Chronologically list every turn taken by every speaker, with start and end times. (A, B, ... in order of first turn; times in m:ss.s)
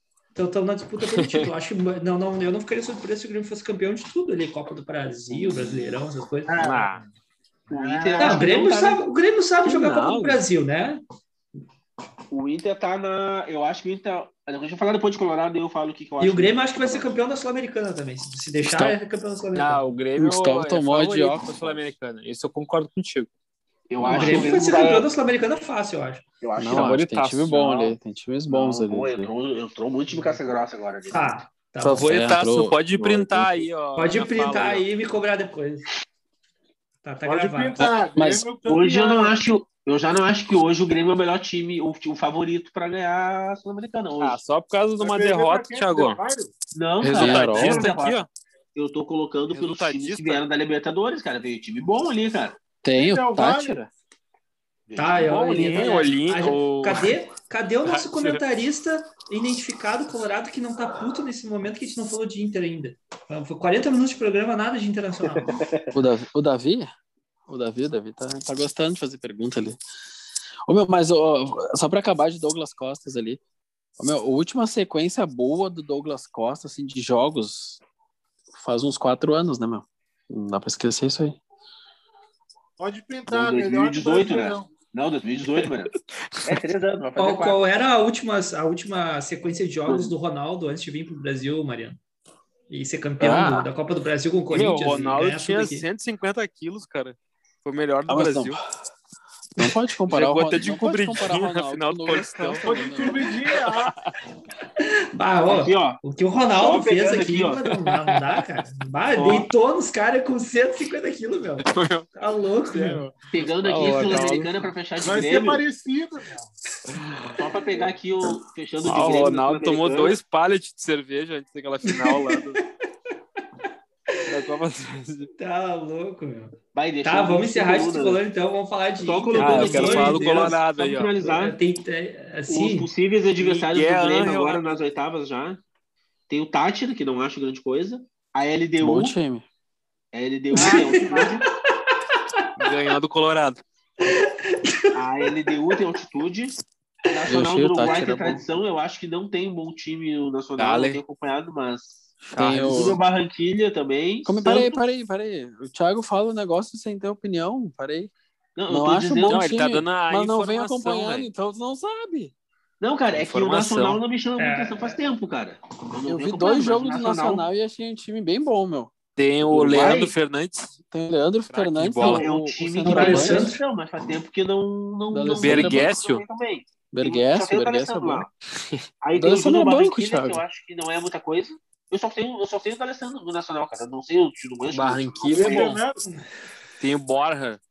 0:00.4-0:06.9 A
0:01.1-0:01.5 B
0:06.5-0:07.1 C
0:06.6-0:07.0 B
0:07.7-0:08.5 C
0:07.7-0:09.1 D
0:08.2-0:11.0 A
0:09.6-0:10.4 B
0:12.3-0:17.1 D
0:16.2-0:19.9 A
0:18.6-0:19.0 E
0:19.6-0:23.3 B
0:20.2-0:21.8 E
0:23.9-0:25.1 D
0:24.0-0:24.5 E
0:24.0-0:26.2 A
0:26.4-0:27.0 D
0:26.6-0:29.3 E
0:26.7-0:27.9 B
0:28.5-0:31.4 D
0:31.1-0:32.1 A
0:31.8-0:33.7 E
0:32.0-0:34.8 B
0:34.0-0:35.9 A
0:37.0-0:37.9 A
0:37.2-0:39.4 C
0:37.8-0:38.5 E
0:38.7-0:44.4 D
0:44.2-0:46.2 B
0:45.0-0:46.5 C
0:46.7-0:52.6 D
0:47.0-0:48.3 B
0:47.1-0:47.8 E
0:49.5-0:50.4 B
0:52.8-0:53.9 E
0:53.0-0:53.8 C
0:54.9-0:55.9 D
0:55.0-1:05.6 A
0:55.4-0:57.1 B
0:57.9-0:58.4 B
1:05.3-1:05.9 D
1:05.9-1:06.9 E
1:07.5-1:09.8 E
1:10.7-1:13.4 E
1:14.0-1:17.8 E
1:18.5-1:21.4 E
1:22.8-1:24.8 C
1:23.3-1:25.9 D
1:26.4-1:27.6 D
1:27.2-1:32.0 A
1:29.9-1:30.1 D
1:32.7-1:35.9 A
1:33.2-1:33.7 E
1:34.5-1:38.6 B
1:38.1-1:38.6 E
1:39.6-1:43.2 E
1:40.1-1:42.6 B
1:42.6-1:43.9 C
1:43.6-1:44.1 B
1:45.2-1:53.1 A
1:45.5-1:46.0 D
1:46.5-1:47.6 D
1:49.2-1:49.5 B
1:51.6-1:52.1 B
1:52.8-1:54.5 B
1:53.3-1:55.6 D
1:55.0-1:56.5 C
1:57.3-2:00.2 D
1:58.8-2:02.6 B
2:01.9-2:02.4 A
2:04.3-2:05.3 B
2:05.4-2:10.5 A
2:06.7-2:08.2 D
2:09.0-2:11.6 D
2:09.4-2:11.1 B
2:11.2-2:12.9 A
2:12.5-2:15.6 D
2:13.4-2:14.8 B
2:16.3-2:19.2 D
2:18.8-2:19.5 E
2:20.1-2:21.5 D
2:20.5-2:21.4 A
2:20.6-2:21.4 C
2:21.9-2:22.5 A
2:22.6-2:23.6 B
2:24.1-2:25.0 A
2:25.0-2:26.5 D
2:27.1-2:32.0 D
2:27.3-2:28.5 E
2:30.6-2:31.0 B
2:32.2-2:32.8 B
2:32.4-2:33.0 E
2:32.6-2:34.8 D
2:34.2-2:38.1 E
2:38.6-2:39.5 D
2:38.7-2:42.3 E
2:39.3-2:41.3 B
2:42.8-2:47.4 D
2:43.1-2:44.0 B
2:44.4-2:45.0 A
2:46.1-2:48.9 E
2:49.2-2:50.7 B
2:49.5-2:50.1 D
2:50.9-2:53.5 E
2:51.5-2:52.3 B
2:52.0-2:58.3 D
2:52.8-2:53.6 A
2:55.1-2:55.9 E
2:55.4-2:56.2 B
2:56.9-2:58.3 E
2:59.0-3:05.8 D
2:59.1-3:00.4 E
3:04.7-3:05.8 B
3:05.3-3:06.0 C
3:06.8-3:07.6 B